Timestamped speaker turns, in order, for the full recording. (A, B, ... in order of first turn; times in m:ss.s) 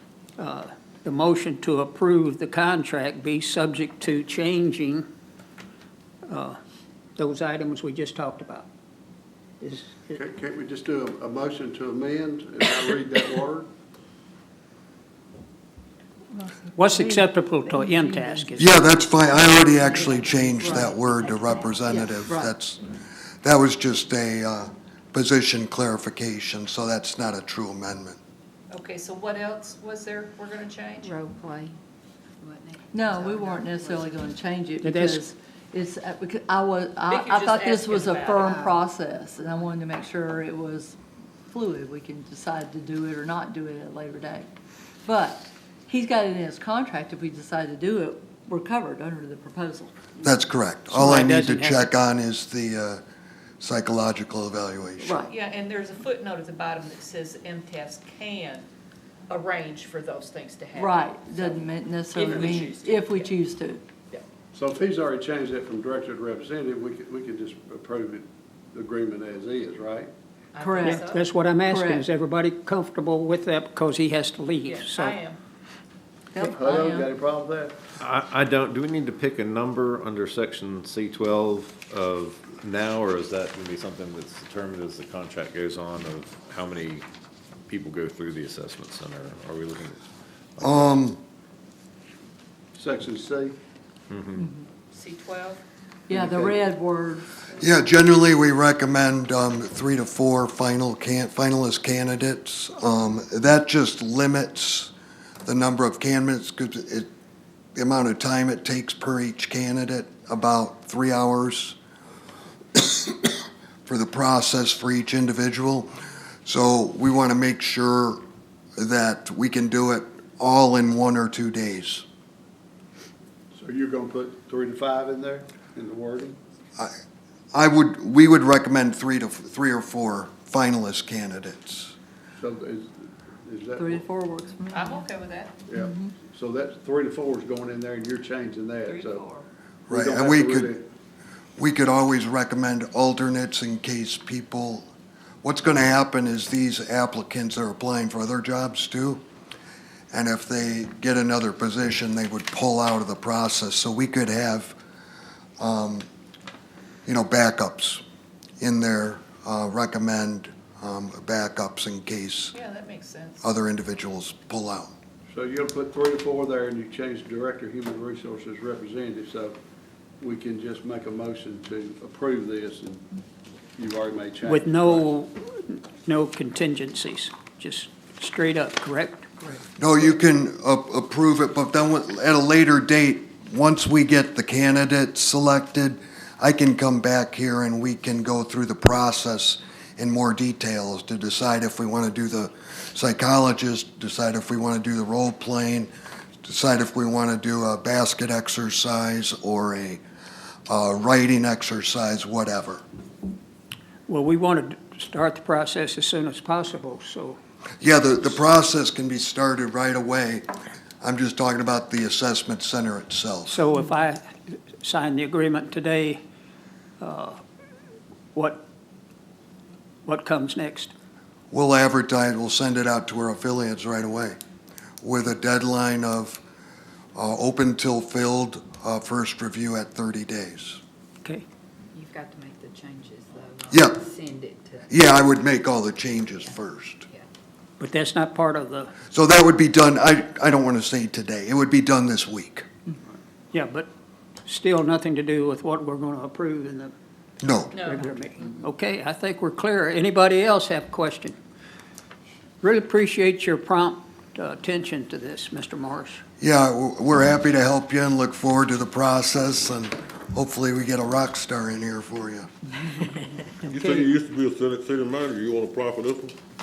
0:00.4-0:05.1 A
0:06.3-0:06.6 A
0:07.2-0:08.7 A
0:09.6-0:10.2 A
0:10.1-0:13.7 B
0:16.4-0:17.2 C
0:16.8-0:19.0 A
0:18.0-0:18.4 C
0:18.6-0:22.8 D
0:20.6-0:21.0 C
0:21.9-0:22.5 C
0:23.4-0:28.2 D
0:28.7-0:31.1 E
0:31.0-0:31.8 F
0:32.4-0:34.3 F
0:32.9-0:41.0 C
0:34.8-0:35.2 A
0:37.1-0:38.6 E
0:38.5-0:38.8 F
0:41.5-0:44.5 C
0:45.1-0:50.4 C
0:50.2-0:53.0 D
0:50.9-0:51.9 A
0:53.6-0:55.2 D
0:55.0-0:55.3 C
0:55.3-0:58.7 E
0:59.3-1:03.4 E
1:00.7-1:03.8 C
1:04.5-1:10.1 B
1:10.5-1:11.3 E
1:10.6-1:11.0 C
1:10.8-1:15.2 A
1:11.7-1:12.0 C
1:14.6-1:15.4 E
1:16.3-1:17.1 C
1:16.4-1:17.8 B
1:18.0-1:27.1 G
1:27.7-1:30.0 G
1:30.6-1:31.0 G
1:30.6-1:31.2 D
1:32.8-1:33.6 B
1:34.1-1:34.5 G
1:34.4-1:34.6 C
1:34.9-1:35.6 E
1:36.1-1:37.4 C
1:36.1-1:36.6 B
1:37.6-1:44.9 D
1:45.4-1:47.1 D
1:47.8-1:51.8 D
1:52.8-1:55.9 D
1:56.4-1:58.2 D
1:58.8-2:02.0 D
2:03.5-2:06.4 B
2:07.5-2:11.9 D
2:12.4-2:14.1 B
2:13.8-2:15.0 C
2:14.7-2:15.6 E
2:15.7-2:19.2 B
2:15.8-2:16.1 C
2:18.9-2:19.5 E
2:19.9-2:20.7 D
2:19.9-2:20.8 B
2:21.6-2:24.9 D
2:25.4-2:29.2 D
2:30.1-2:34.8 D
2:35.6-2:36.1 D
2:37.1-2:38.0 D
2:38.6-2:42.5 D
2:42.5-2:43.5 E
2:43.4-2:44.9 D
2:45.3-2:49.6 B
2:50.2-2:53.0 B
2:53.8-2:55.1 B
2:54.4-2:59.3 A
2:59.8-3:15.9 D
3:16.4-3:20.0 D
3:20.7-3:22.8 D
3:24.1-3:27.4 A
3:27.8-3:30.5 D
3:31.0-3:33.6 D
3:33.5-3:36.2 A
3:37.0-3:37.4 A
3:38.3-3:38.6 A
3:40.0-3:40.9 A
3:41.5-3:44.4 D
3:45.0-3:46.4 D
3:47.2-3:50.8 D
3:51.9-3:54.9 F
3:53.7-3:54.0 D
3:54.9-3:57.1 D
3:57.8-3:58.9 A
3:59.1-4:02.6 D
4:03.5-4:03.9 A
4:04.4-4:06.9 A
4:07.4-4:07.7 D
4:07.7-4:11.4 A
4:07.7-4:08.2 E
4:12.6-4:16.2 A
4:16.4-4:22.5 D
4:23.7-4:26.3 H
4:23.8-4:24.1 A